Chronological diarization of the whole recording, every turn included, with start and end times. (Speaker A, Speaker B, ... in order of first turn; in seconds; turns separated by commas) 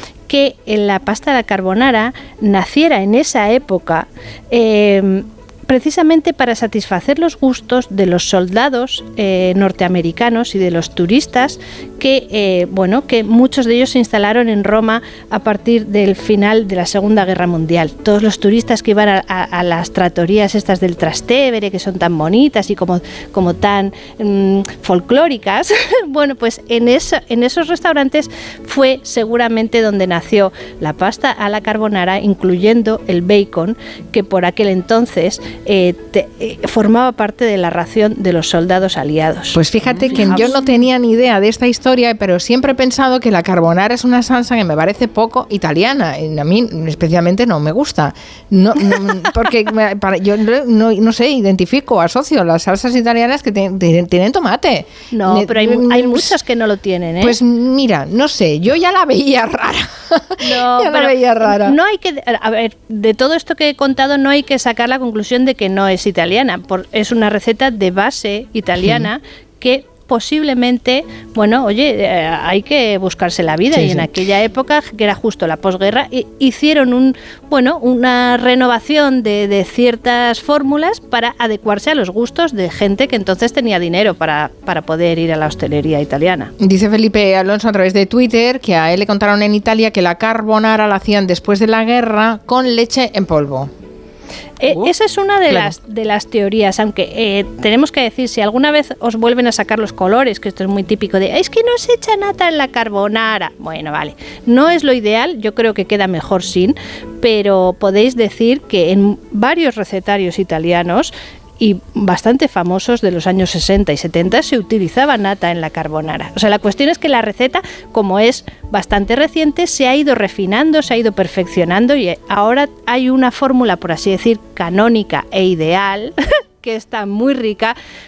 Speaker A: 0.3-40.6, Speaker B: 39.5-56.3, Speaker A: 55.1-57.4, Speaker B: 57.2-61.8, Speaker A: 60.4-86.5, Speaker B: 86.6-93.7, Speaker A: 94.6-127.7